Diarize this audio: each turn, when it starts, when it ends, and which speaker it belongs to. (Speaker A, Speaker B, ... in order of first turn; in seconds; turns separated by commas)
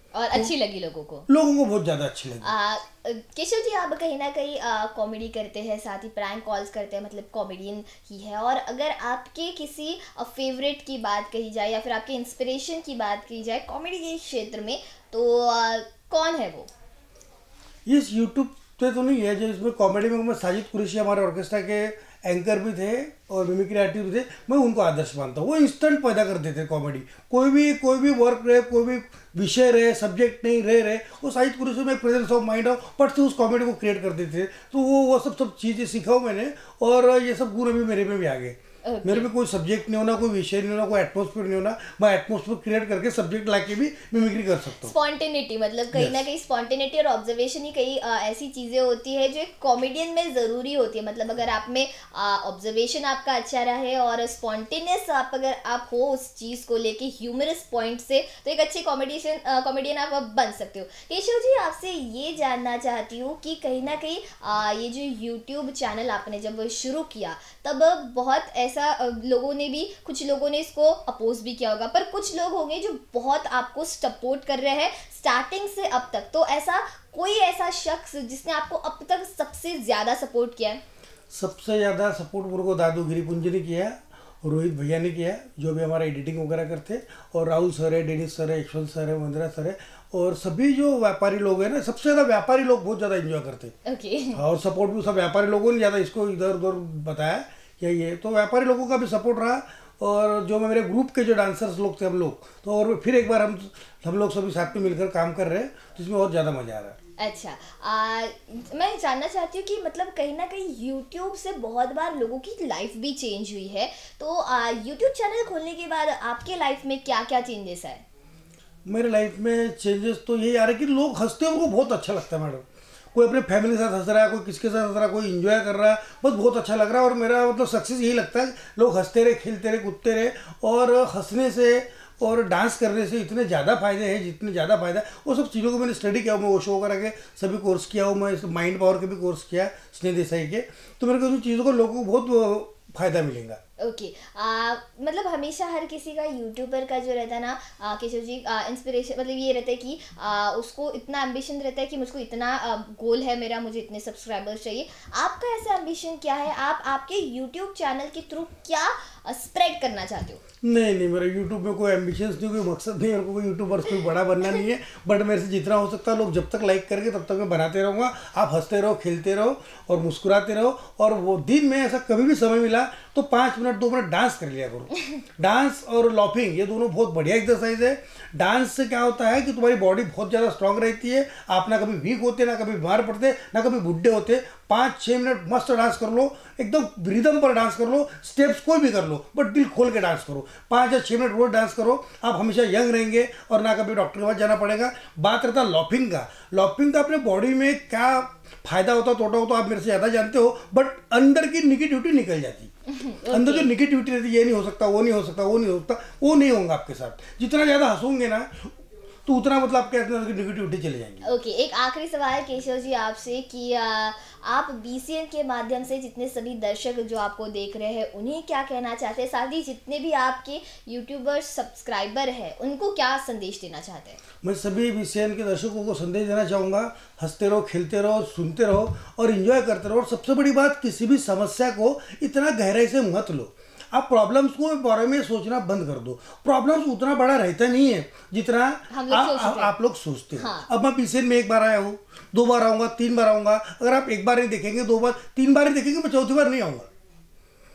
Speaker A: 0.1-1.2, Speaker B: 1.3-2.5, Speaker A: 2.4-16.7, Speaker B: 17.9-44.9, Speaker A: 38.8-39.3, Speaker A: 44.8-80.8, Speaker B: 45.9-46.3, Speaker B: 81.3-93.7, Speaker A: 93.8-94.4, Speaker B: 94.3-107.0, Speaker A: 107.2-118.0, Speaker B: 118.9-143.6, Speaker A: 143.8-160.4, Speaker B: 160.6-202.7, Speaker A: 202.9-203.7, Speaker B: 203.3-208.7, Speaker B: 209.2-211.3, Speaker A: 211.2-224.2, Speaker B: 224.4-246.9, Speaker A: 238.9-239.7, Speaker A: 240.4-240.7